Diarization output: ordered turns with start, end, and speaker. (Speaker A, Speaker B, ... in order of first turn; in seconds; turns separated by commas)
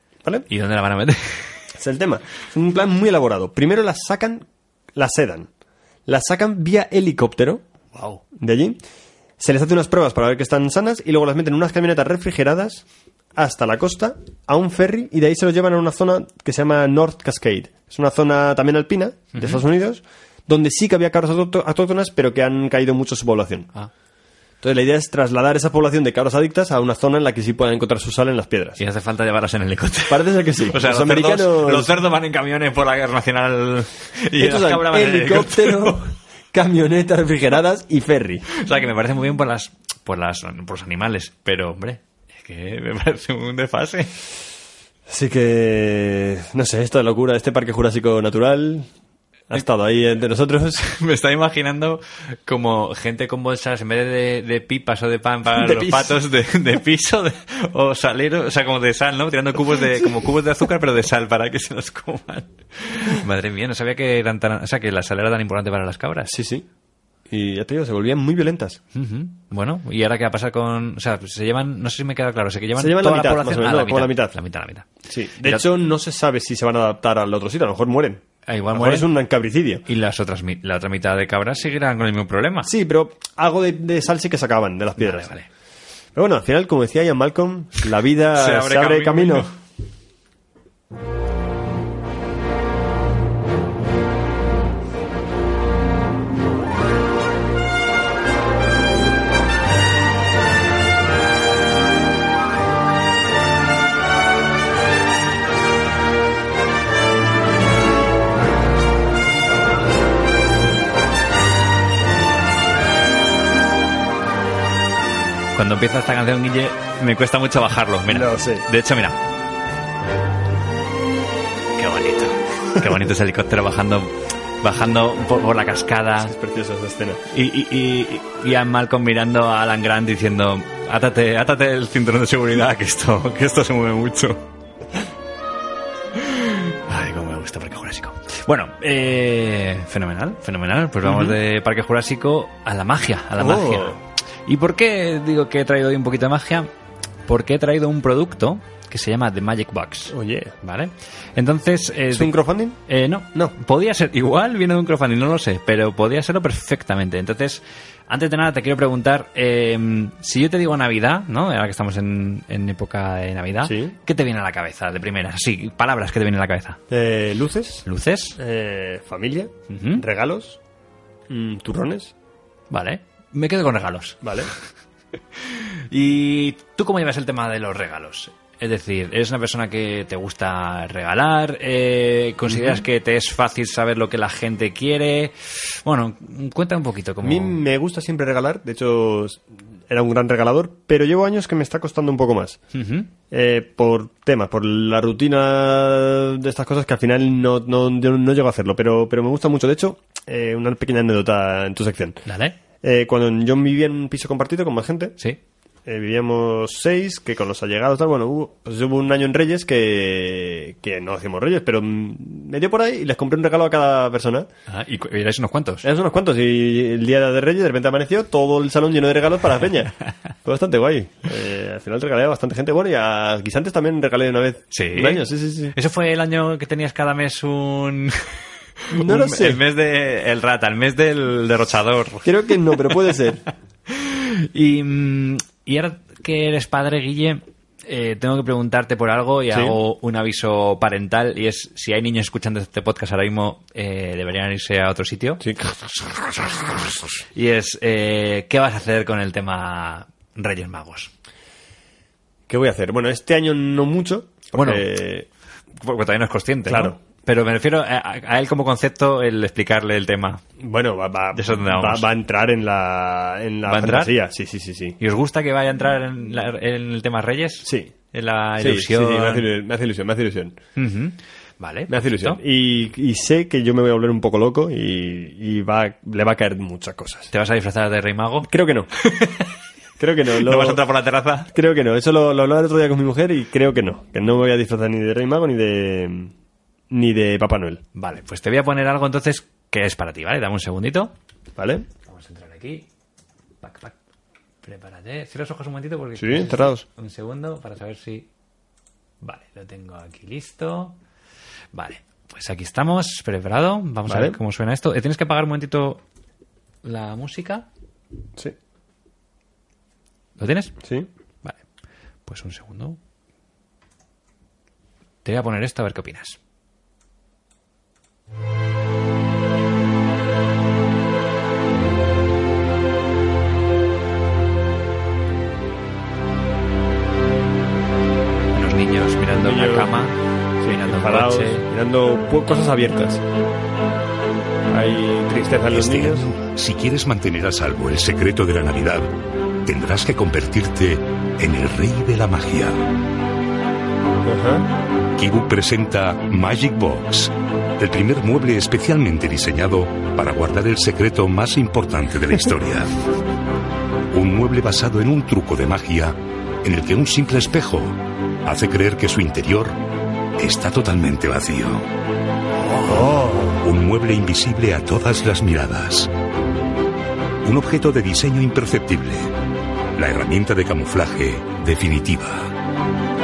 Speaker A: 0.5-1.6, Speaker B: 1.8-5.5, Speaker B: 6.1-7.6, Speaker A: 7.9-8.2, Speaker B: 8.3-8.8, Speaker B: 9.4-23.7, Speaker A: 19.3-19.6, Speaker B: 24.6-28.8, Speaker A: 28.8-36.0, Speaker B: 30.1-31.9, Speaker B: 34.4-38.5, Speaker A: 38.5-44.1, Speaker B: 45.1-48.9, Speaker B: 49.5-50.8, Speaker A: 50.8-66.3, Speaker B: 55.5-56.2, Speaker B: 66.3-66.7, Speaker B: 67.3-68.8, Speaker A: 68.9-74.9, Speaker B: 72.8-74.3, Speaker B: 75.1-79.8, Speaker A: 78.5-79.1, Speaker A: 79.9-82.7, Speaker B: 82.6-85.3, Speaker A: 85.0-85.5, Speaker B: 86.1-89.5, Speaker A: 88.3-89.5, Speaker A: 115.5-119.2, Speaker B: 118.1-118.7, Speaker A: 121.8-126.3, Speaker B: 126.2-127.2, Speaker A: 127.3-134.4, Speaker A: 136.1-146.7, Speaker B: 141.0-141.4, Speaker B: 143.4-144.0, Speaker A: 147.3-152.3, Speaker B: 150.1-150.6, Speaker B: 152.1-152.8, Speaker A: 152.9-166.8, Speaker B: 163.6-163.9, Speaker B: 166.9-167.8, Speaker A: 167.8-168.4, Speaker B: 168.4-170.6, Speaker A: 169.7-170.0, Speaker B: 171.3-172.1, Speaker A: 172.7-174.2, Speaker B: 174.2-174.5, Speaker A: 175.4-187.6, Speaker B: 182.5-182.8, Speaker B: 187.2-192.6, Speaker A: 192.7-193.1, Speaker B: 193.3-202.3, Speaker A: 202.3-202.6, Speaker B: 202.8-205.2, Speaker B: 205.8-214.5, Speaker A: 214.7-215.9, Speaker B: 215.8-225.7, Speaker A: 224.7-228.3, Speaker A: 228.9-232.7, Speaker B: 228.9-229.6, Speaker B: 232.2-233.4, Speaker A: 233.9-245.5, Speaker B: 239.5-239.8, Speaker B: 245.4-245.8, Speaker A: 246.0-251.1, Speaker B: 252.5-255.3, Speaker A: 254.5-254.8, Speaker A: 255.8-260.4, Speaker B: 256.7-257.0, Speaker B: 260.6-265.0, Speaker A: 261.3-262.1, Speaker A: 263.7-264.1, Speaker A: 265.0-269.5, Speaker B: 267.6-267.9, Speaker B: 268.6-270.6, Speaker A: 270.8-272.4, Speaker B: 271.9-277.3, Speaker A: 277.3-279.5, Speaker B: 278.4-278.9, Speaker B: 280.0-280.8, Speaker A: 280.4-281.5, Speaker B: 281.5-286.3, Speaker B: 286.9-287.8, Speaker A: 287.9-291.1, Speaker B: 291.6-291.9, Speaker A: 292.1-292.9, Speaker A: 293.6-294.0, Speaker A: 294.6-298.3, Speaker B: 296.2-296.8, Speaker A: 299.2-300.9, Speaker A: 301.7-306.0, Speaker B: 304.1-304.4, Speaker A: 306.8-307.6, Speaker A: 310.4-310.7, Speaker A: 312.2-313.0, Speaker A: 315.2-316.4, Speaker A: 328.5-331.6, Speaker B: 329.4-329.9, Speaker B: 330.6-333.2, Speaker B: 334.7-336.3, Speaker C: 335.7-339.1, Speaker C: 339.6-342.8, Speaker B: 344.2-344.7, Speaker C: 345.2-352.9, Speaker C: 354.1-359.8, Speaker C: 360.4-361.9, Speaker B: 362.8-363.6, Speaker C: 363.6-366.1, Speaker C: 367.4-369.3, Speaker C: 369.9-372.5